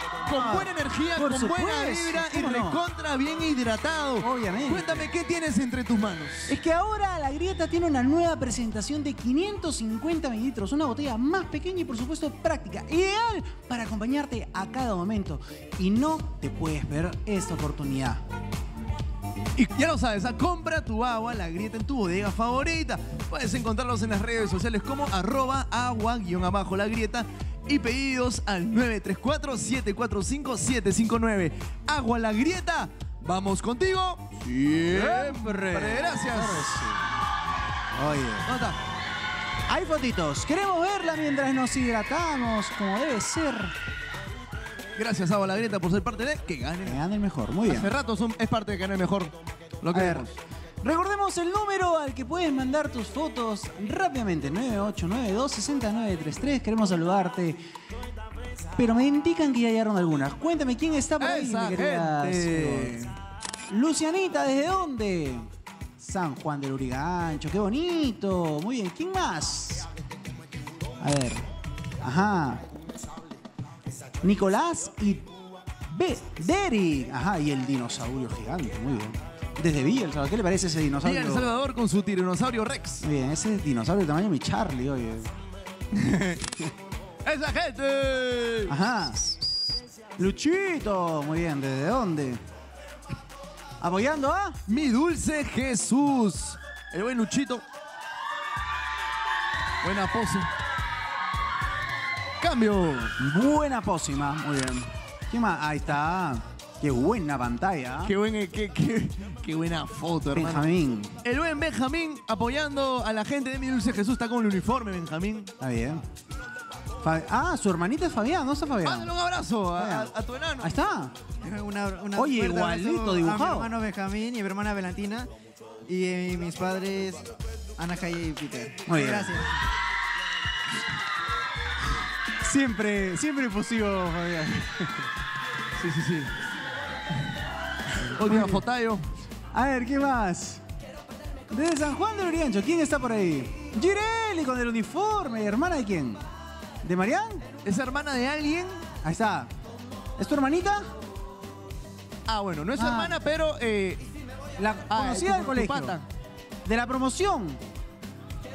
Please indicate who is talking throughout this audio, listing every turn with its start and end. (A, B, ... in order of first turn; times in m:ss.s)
0:00.2-0:06.5 A
0:00.3-0:02.8 B
0:04.2-0:05.1 B
0:06.5-0:18.2 B
0:19.6-0:36.7 A
0:34.9-0:37.0 B
0:37.9-0:38.5 B
0:38.5-0:38.8 A
0:39.7-0:43.8 B
0:45.0-0:47.0 A
0:46.8-0:47.9 B
0:47.7-0:50.4 A
0:49.9-0:50.3 B
0:50.8-0:57.6 B
0:58.8-1:03.0 B
1:01.2-1:03.2 A
1:03.7-1:05.5 B
1:06.0-1:09.9 B
1:11.0-1:11.5 B
1:12.0-1:12.7 B
1:14.2-1:15.3 B
1:15.9-1:21.5 B
1:21.0-1:23.0 A
1:23.0-1:25.4 B
1:25.9-1:26.5 A
1:27.2-1:28.7 A
1:28.7-1:32.4 B
1:33.8-1:34.6 B
1:34.7-1:37.6 A
1:39.8-1:40.5 A
1:42.4-1:43.1 A
1:43.2-1:48.1 B
1:48.0-1:50.7 A
1:50.3-1:51.2 B
1:51.2-1:55.5 A
1:55.6-1:56.1 B
1:57.0-1:59.1 B
1:58.8-2:00.7 A
1:59.8-2:01.2 B
2:01.4-2:05.3 C
2:02.2-2:03.7 B
2:05.8-2:09.5 C
2:08.9-2:09.4 B
2:12.4-2:14.9 B
2:15.8-2:16.3 A
2:18.1-2:18.6 B
2:18.2-2:19.0 A
2:19.5-2:20.6 B
2:21.5-2:26.2 B
2:26.8-2:27.5 B
2:27.6-2:28.8 A
2:29.0-2:29.5 B
2:30.2-2:30.9 B
2:32.3-2:34.0 A
2:32.8-2:33.2 B
2:34.6-2:36.0 B
2:34.9-2:36.0 A
2:36.6-2:37.6 B